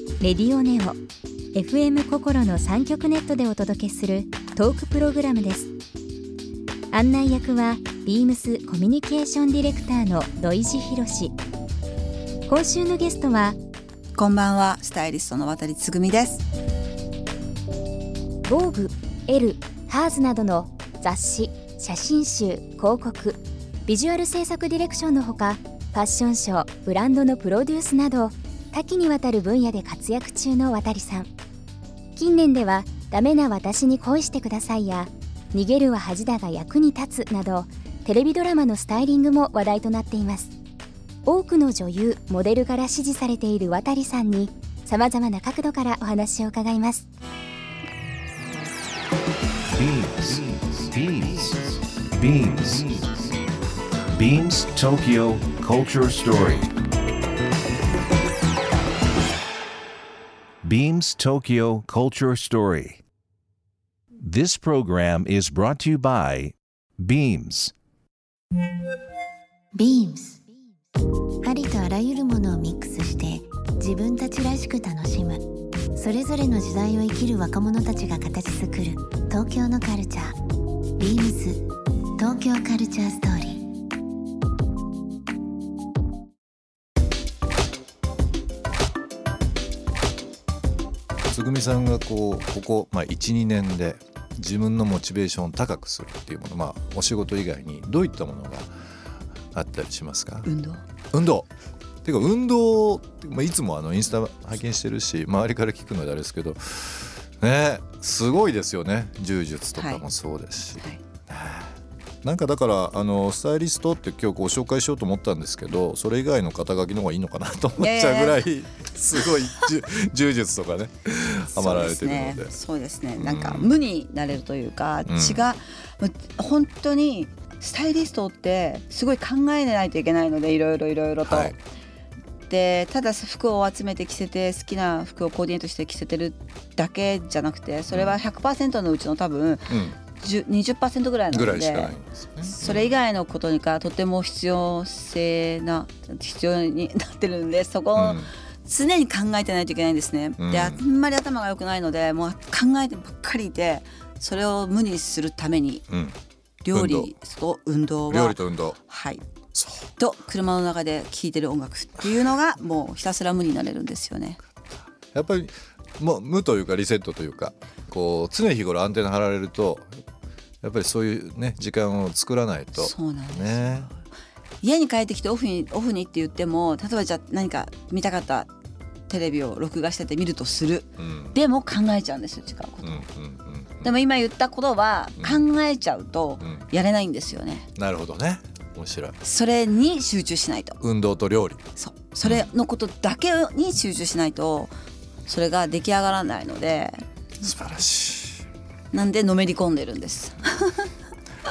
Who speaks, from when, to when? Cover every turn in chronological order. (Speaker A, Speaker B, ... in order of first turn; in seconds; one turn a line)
Speaker A: 0.2-1.0
Speaker A: 1.5-5.7
Speaker A: 6.9-11.3
Speaker A: 12.5-13.6
Speaker B: 14.2-16.4
Speaker A: 18.5-31.3
Speaker A: 32.2-40.5
Speaker A: 41.2-47.1
Speaker C: 49.7-53.3
Speaker C: 54.1-56.7
Speaker C: 60.6-63.0
Speaker C: 64.2-67.7
Speaker D: 69.8-70.5
Speaker D: 71.4-80.4
Speaker D: 81.0-83.7
Speaker E: 91.3-98.7
Speaker E: 99.5-100.5
Speaker B: 100.5-100.8
Speaker E: 101.1-101.5
Speaker E: 102.0-122.5
Speaker B: 109.8-110.0
Speaker B: 117.8-118.4
Speaker B: 121.5-131.6
Speaker E: 123.2-123.7
Speaker E: 125.1-125.4
Speaker E: 131.2-131.6
Speaker B: 132.5-141.9
Speaker E: 137.9-138.2
Speaker E: 139.7-140.0
Speaker E: 141.3-143.0
Speaker B: 142.5-155.8
Speaker E: 147.9-148.3
Speaker E: 150.4-150.8
Speaker E: 155.9-156.2
Speaker B: 156.6-159.2
Speaker E: 156.7-157.1
Speaker E: 158.1-158.8
Speaker E: 159.5-159.9
Speaker B: 160.0-164.4
Speaker E: 165.1-169.9
Speaker E: 170.6-173.9
Speaker B: 172.8-173.9
Speaker B: 174.6-178.5
Speaker B: 179.1-183.0
Speaker E: 181.0-181.4
Speaker E: 182.8-183.9
Speaker B: 183.8-187.7
Speaker E: 186.4-186.7
Speaker E: 187.8-189.2
Speaker B: 189.2-190.8
Speaker E: 190.8-191.6
Speaker B: 191.8-194.7
Speaker B: 195.3-197.0
Speaker E: 197.4-198.4
Speaker B: 198.9-200.9